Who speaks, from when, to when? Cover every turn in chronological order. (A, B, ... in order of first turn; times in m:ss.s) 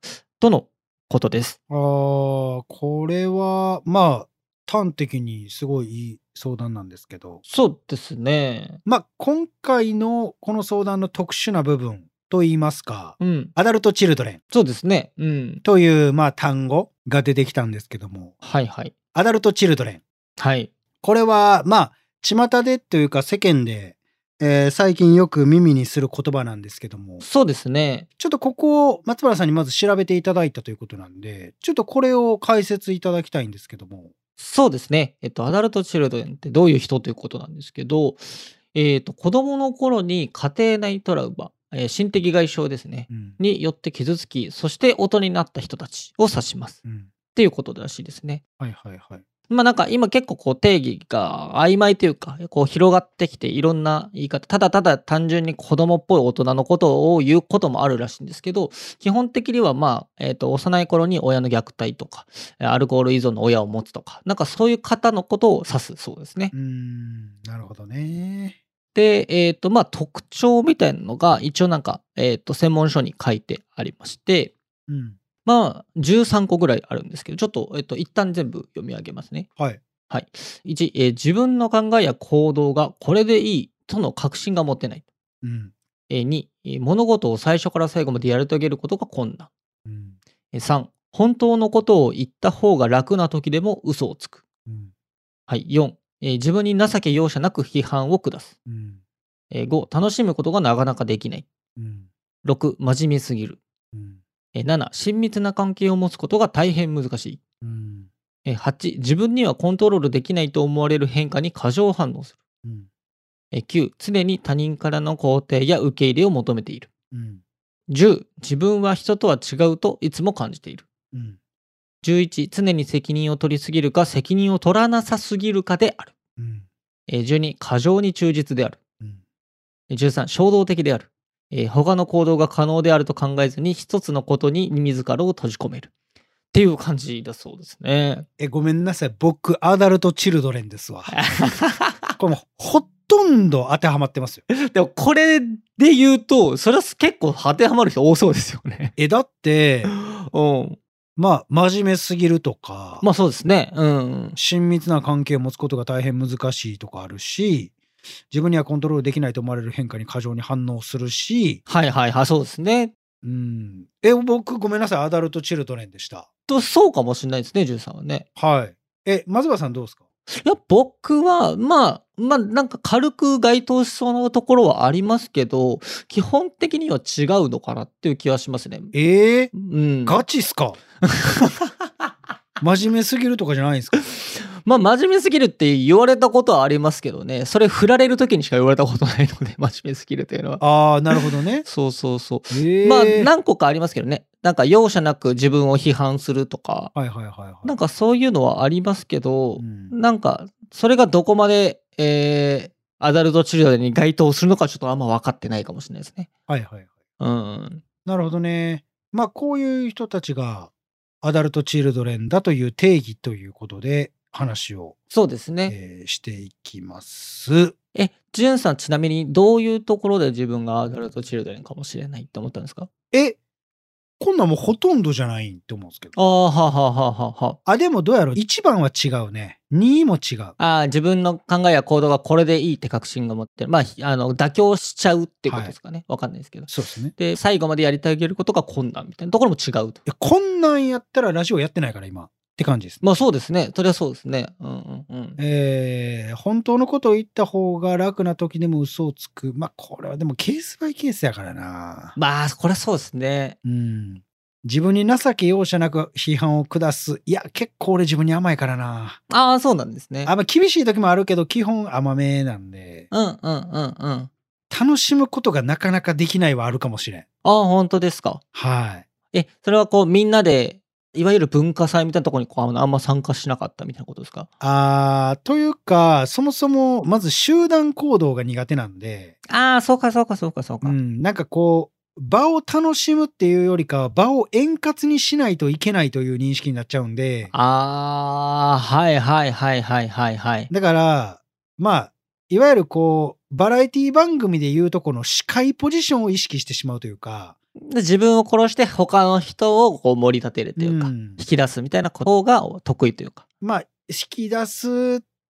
0:00.4-0:01.6 A
0:01.7-0:07.4 B
0:07.5-0:08.8 A
0:08.8-0:14.4 B
0:13.2-0:13.5 A
0:14.5-0:15.6 A
0:15.6-0:18.4 B
0:18.4-0:18.9 A
0:19.1-0:20.0 B
0:20.4-0:20.7 A
0:21.0-0:27.2 B
0:27.2-0:28.1 A
0:28.2-0:34.1 B
0:34.4-0:46.8 A
0:43.1-0:43.4 B
0:46.8-0:47.1 B
0:47.4-0:48.4 A
0:48.6-0:49.2 B
0:49.5-1:06.5 A
1:06.5-1:08.6 B
1:09.0-1:14.5 A
1:14.9-1:15.2 B
1:15.4-1:19.5 A
1:20.1-1:25.1 A
1:25.4-1:25.7 B
1:26.1-1:29.5 A
1:29.8-1:30.2 B
1:30.5-1:34.4 A
1:35.5-1:38.5 A
1:38.7-1:39.0 B
1:39.5-1:41.5 A
1:41.8-1:42.1 B
1:42.4-1:43.6 A
1:43.9-1:44.2 B
1:44.6-1:47.4 A
1:47.6-1:48.1 B
1:48.4-1:52.4 A
1:53.5-1:56.9 A
1:57.1-1:57.4 B
1:57.9-2:00.9 A
2:01.1-2:01.4 B
2:02.0-2:06.1 A
2:06.4-2:06.7 B
2:07.1-2:08.8 A
2:09.9-2:15.9 A
2:16.5-2:18.3 A
2:18.4-2:21.2 B
2:21.1-2:22.2 A
2:22.2-2:24.4 B
2:24.5-2:28.9 A
2:29.0-2:29.9 B
2:29.9-2:30.8 A
2:31.2-2:33.0 B
2:33.0-2:34.4 A
2:34.4-2:37.7 B
2:38.3-2:41.6 B
2:41.7-2:42.9 A
2:43.2-2:46.3 B
2:46.5-2:48.3 A
2:48.4-2:50.0 B
2:50.3-2:58.9 A
2:58.9-2:59.5 B
2:59.5-3:00.2 A
3:00.1-3:00.8 B
3:01.0-3:02.1 A
3:02.6-3:04.1 B
3:04.0-3:16.9 A
3:10.6-3:11.6 B
3:12.5-3:13.3 B
3:16.9-3:17.8 B
3:17.6-3:26.3 A
3:19.6-3:19.9 B
3:26.5-3:26.9 B
3:27.2-3:27.8 A
3:28.0-3:30.7 B
3:31.2-3:35.0 B
3:35.1-3:35.7 A
3:35.7-3:37.7 B
3:38.0-3:42.9 A
3:43.1-3:43.4 B
3:44.2-3:46.1 B
3:46.2-3:47.6 A
3:47.7-3:50.6 B
3:50.6-4:00.0 A
3:55.5-3:55.7 B
3:56.7-3:57.1 B
4:00.1-4:03.0 B
4:03.0-4:05.4 A
4:05.4-4:12.2 B
4:12.2-4:13.6 A
4:13.6-4:19.2 B
4:19.3-4:20.3 A
4:20.2-4:23.1 B
4:23.1-4:24.3 A
4:24.7-4:27.2 B
4:27.4-4:28.4 A
4:28.5-4:29.1 B
4:29.3-4:34.5 A
4:34.6-4:39.4 B
4:39.5-4:41.0 A
4:40.8-4:47.5 B
4:47.5-4:50.7 A
4:50.7-4:57.6 B
4:57.8-5:03.4 A
5:00.8-5:01.4 B
5:03.6-5:05.2 B